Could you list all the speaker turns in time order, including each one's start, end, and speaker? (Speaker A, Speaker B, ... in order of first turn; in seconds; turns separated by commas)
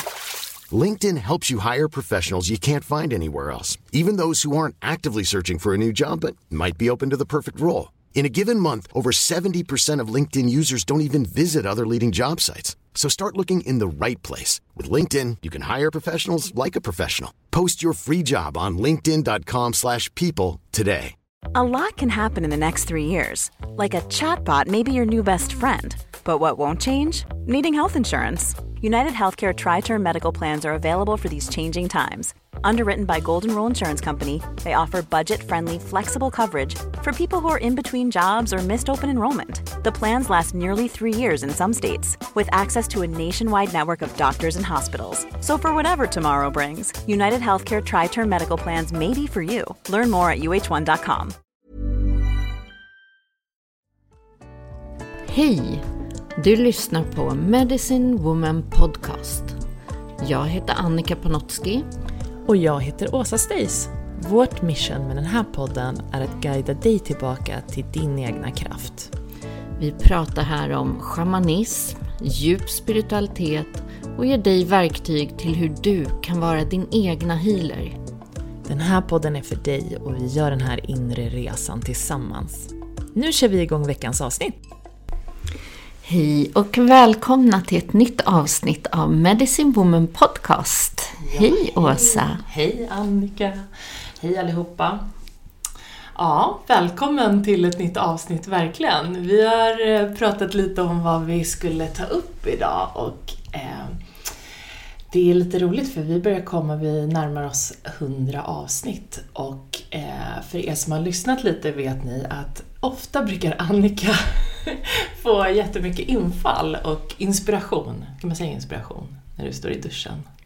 Speaker A: 0.7-21.1, Speaker B: 21.5-51.4, Speaker C: 55.2-59.6, Speaker C: 60.2-61.9, Speaker D: 62.5-69.1, Speaker C: 69.8-78.0, Speaker D: 78.7-84.6, Speaker C: 86.0-92.4, Speaker D: 91.2-95.0, Speaker D: 96.2-104.0, Speaker D: 105.1-120.2